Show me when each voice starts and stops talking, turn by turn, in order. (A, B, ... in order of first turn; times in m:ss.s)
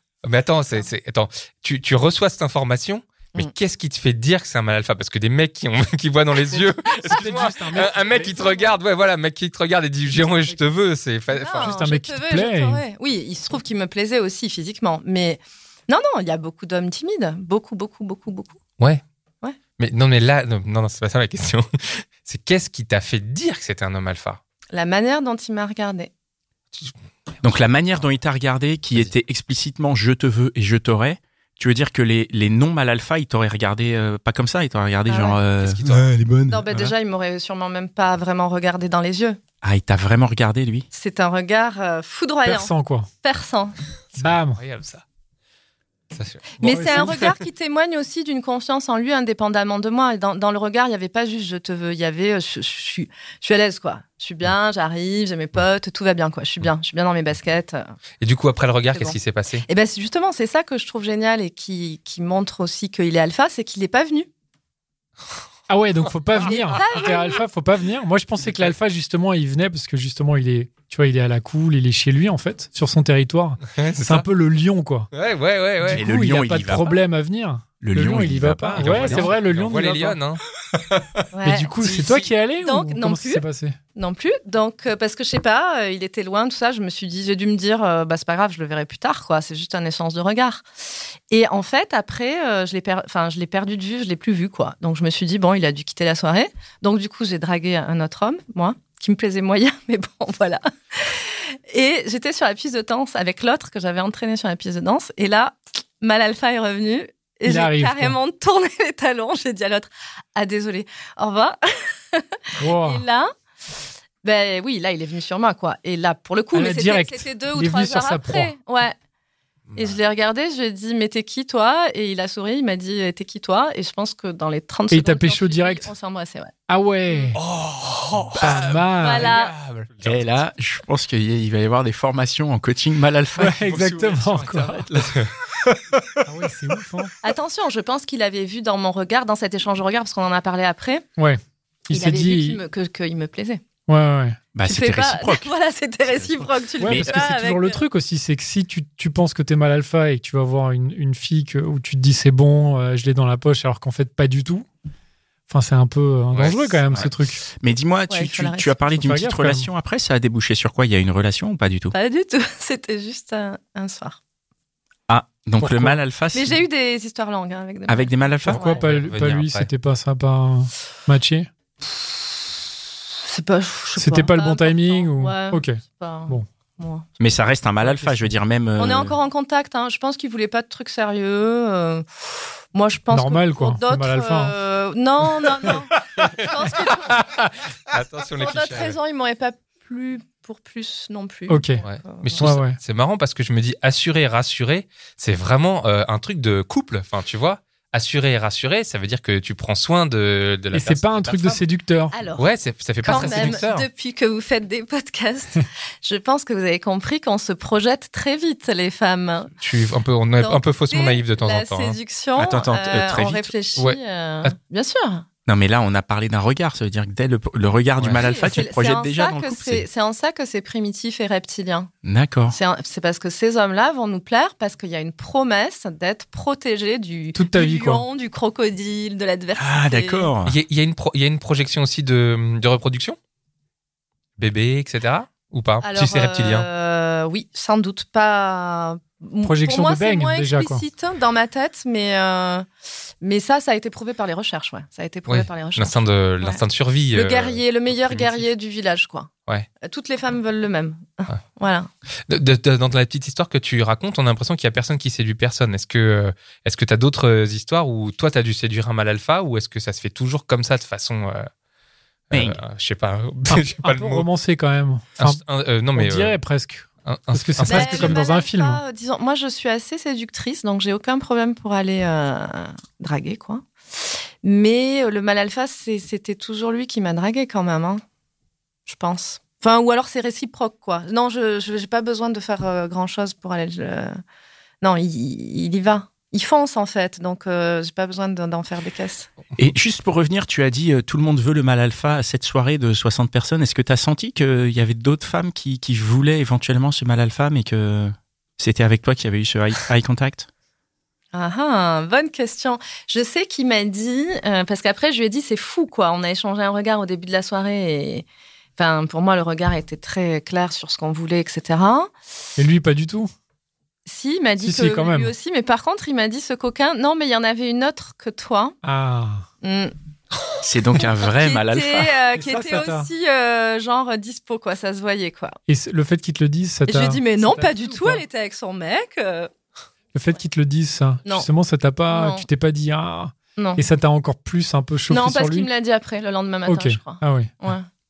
0:00.2-0:11.8 A
0:06.5-0:08.7 B
0:10.2-0:10.6 B
0:11.3-0:18.6 C
0:11.6-0:12.8 B
0:19.8-0:24.4 A
0:24.7-0:26.1 C
0:27.4-0:36.9 D
0:35.1-0:35.4 C
0:35.6-0:36.1 A
0:36.5-0:39.4 C
0:39.6-0:40.9 D
0:40.9-0:43.8 C
0:42.4-0:43.1 B
0:44.1-0:45.0 A
0:44.2-0:44.6 B
0:46.1-0:47.3 A
0:46.6-0:57.9 C
0:46.6-0:47.2 B
0:58.2-0:59.6 A
0:58.9-1:04.3 C
1:05.7-1:15.1 B
1:06.4-1:07.4 C
1:08.4-1:08.7 A
1:13.7-1:14.3 A
1:15.1-1:16.0 A
1:15.8-1:20.2 B
1:15.9-1:17.0 D
1:17.8-1:19.3 D
1:18.8-1:21.1 A
1:21.3-1:23.4 C
1:21.4-1:23.8 B
1:21.8-1:22.2 A
1:23.9-1:30.6 C
1:31.3-1:53.3 C
1:47.4-1:48.2 B
1:52.6-1:53.0 B
1:54.2-1:59.0 C
1:56.5-1:58.5 B
1:59.7-2:00.0 A
1:59.8-2:06.5 C
2:04.9-2:05.9 B
2:06.7-2:07.4 B
2:07.1-2:07.3 C
2:07.3-2:10.3 A
2:08.3-2:08.7 D
2:08.4-2:09.3 B
2:09.0-2:09.5 C
2:10.0-2:14.2 D
2:13.4-2:14.8 B
2:13.7-2:15.3 A
2:16.2-2:17.1 B
2:17.2-2:21.0 C
2:21.2-2:22.6 B
2:21.9-2:23.6 C
2:23.9-2:24.4 B
2:24.5-2:25.5 D
2:24.6-2:27.8 C
2:26.1-2:27.2 D
2:26.8-2:34.6 B
2:35.5-2:37.4 B
2:36.3-2:37.1 A
2:36.9-2:41.9 D
2:38.1-2:38.8 C
2:39.0-2:39.7 B
2:41.9-2:44.2 C
2:45.1-2:46.6 D
2:45.6-2:46.0 B
2:46.3-2:48.8 C
2:47.9-2:48.6 D
2:48.4-2:51.5 B
2:48.6-2:49.7 A
2:52.0-2:52.2 C
2:53.2-2:57.1 C
2:54.0-2:56.4 B
2:57.2-2:59.2 D
2:57.8-2:58.3 B
2:58.8-3:07.2 C
3:03.1-3:04.5 B
3:06.2-3:06.5 A
3:07.1-3:09.0 A
3:08.4-3:12.5 C
3:11.5-3:11.8 B
3:11.8-3:21.6 A
3:12.4-3:12.8 B
3:20.7-3:22.1 B
3:22.1-3:22.5 C
3:22.4-3:23.9 A
3:23.0-3:29.5 C
3:23.1-3:23.6 B
3:29.6-3:32.0 A
3:30.4-3:35.2 C
3:32.4-3:33.5 D
3:33.8-3:34.5 A
3:35.5-3:39.8 D
3:38.1-3:41.9 C
3:42.0-3:42.6 D
3:42.5-3:50.3 C
3:47.3-3:48.0 B
3:49.6-3:50.6 D
3:50.4-3:53.2 A
3:54.4-3:56.7 A
3:55.8-4:02.7 C
3:59.4-4:00.8 B
4:03.2-4:09.3 C
4:05.3-4:08.4 A
4:09.8-4:11.9 C
4:12.3-4:21.5 A
4:22.3-4:24.3 A
4:22.3-4:22.6 D
4:23.5-4:25.4 B
4:25.2-4:26.3 A
4:25.9-4:28.8 B
4:27.0-4:28.2 A
4:27.6-4:38.0 C
4:38.8-4:44.2 C
4:44.8-4:49.3 C
4:49.6-5:00.5 D
5:01.3-5:08.2 C
5:08.8-5:12.1 C
5:12.6-5:13.3 B
5:14.0-5:18.8 C
5:14.6-5:15.3 B
5:18.8-5:19.4 B
5:19.6-5:19.9 C
5:20.6-5:22.2 D
5:21.2-5:25.6 C
5:22.4-5:23.1 B
5:25.7-5:28.2 B
5:26.9-5:29.5 C
5:30.1-5:35.7 B
5:32.1-5:32.4 C
5:33.6-5:33.8 C
5:35.1-5:37.9 C
5:36.7-5:37.5 B